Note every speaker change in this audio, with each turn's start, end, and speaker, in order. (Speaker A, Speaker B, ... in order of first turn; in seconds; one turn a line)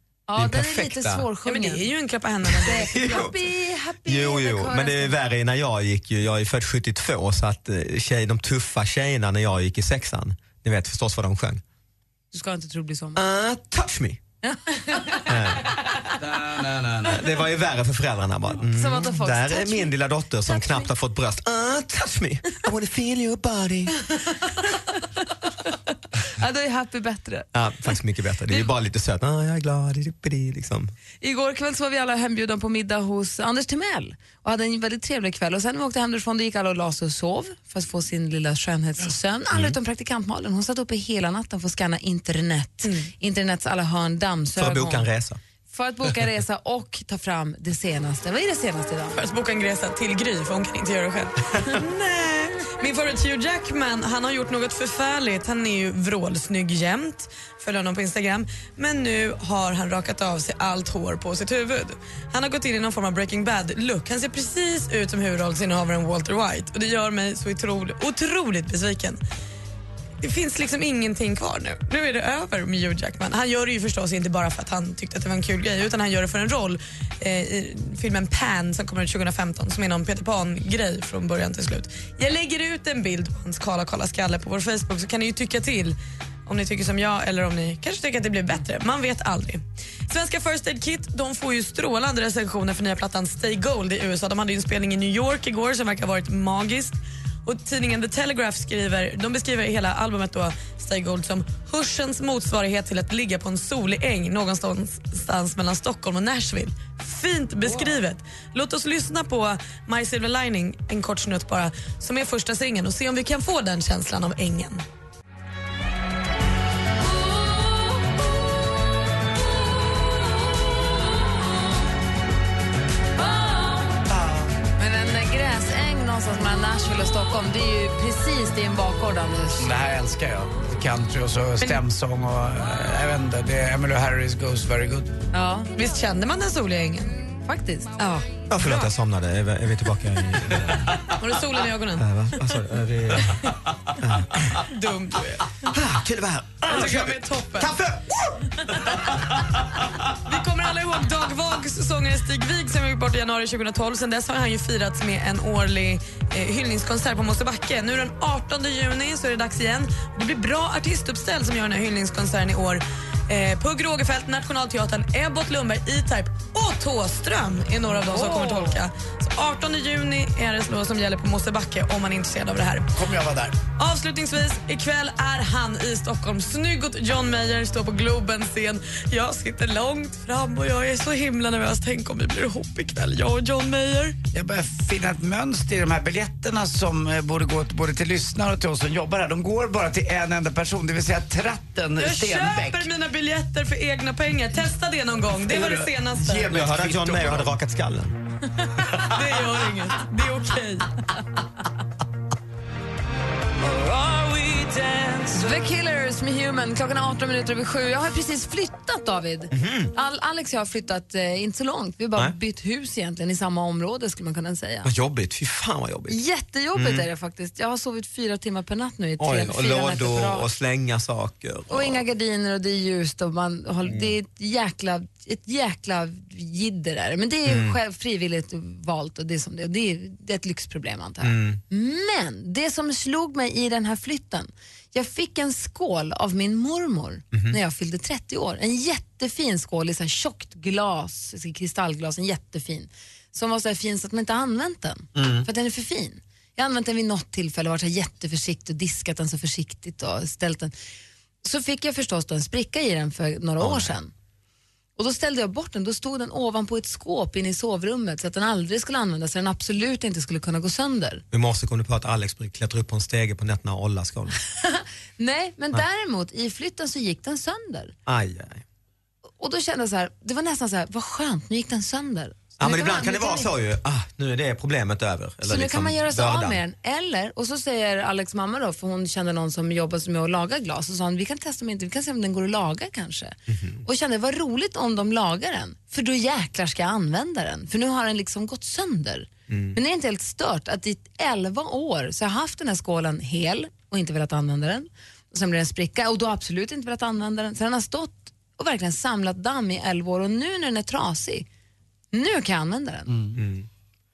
Speaker A: 0.3-1.9
Speaker B: 0.4-1.2
Speaker C: 1.4-2.9
Speaker B: 2.5-3.3
Speaker A: 2.6-5.1
Speaker B: 4.0-11.6
Speaker A: 12.3-13.2
Speaker B: 13.1-14.2
Speaker A: 14.4-15.3
Speaker B: 15.2-15.9
Speaker D: 16.2-17.2
Speaker B: 17.0-24.0
Speaker A: 18.6-19.9
Speaker A: 20.5-20.9
Speaker A: 26.4-27.5
Speaker B: 27.5-30.9
Speaker A: 31.2-45.1
Speaker C: 42.8-43.1
Speaker B: 44.6-45.4
Speaker A: 45.7-49.2
Speaker C: 49.1-69.2
Speaker C: 70.2-114.8
Speaker D: 124.1-124.5
Speaker A: 124.8-129.7
Speaker D: 129.6-135.1
Speaker A: 135.3-135.7
Speaker C: 135.7-137.1
Speaker A: 137.4-138.2
Speaker B: 138.5-141.1
Speaker C: 141.1-142.4
Speaker B: 141.9-144.6
Speaker C: 144.6-145.7
Speaker B: 145.6-149.1
Speaker C: 146.6-147.7
Speaker C: 148.8-149.4
Speaker C: 150.2-172.9
Speaker D: 168.2-168.7
Speaker D: 172.9-173.6
Speaker C: 173.8-184.2
Speaker D: 184.3-192.9
Speaker C: 192.0-196.6
Speaker D: 195.5-195.8
Speaker B: 196.2-198.1
Speaker D: 196.4-197.4
Speaker C: 198.8-201.0
Speaker C: 204.2-205.1
Speaker A: 205.3-214.9
Speaker B: 209.5-209.9
Speaker B: 214.8-216.2
Speaker A: 216.1-220.5
Speaker B: 216.7-217.1
Speaker B: 219.2-222.0
Speaker A: 221.7-250.7
Speaker B: 223.8-224.1
Speaker B: 227.4-227.8
Speaker B: 231.2-231.6
Speaker B: 245.1-245.5
Speaker A: 251.4-254.1
Speaker B: 253.6-253.9
Speaker A: 255.0-261.2
Speaker B: 261.3-264.4
Speaker A: 264.6-267.9
Speaker B: 268.1-268.6
Speaker A: 269.4-273.5
Speaker B: 272.6-276.6
Speaker A: 275.4-301.5
Speaker B: 283.5-283.8
Speaker B: 289.5-289.8
Speaker A: 302.1-303.1
Speaker D: 303.1-303.4
Speaker B: 303.3-303.7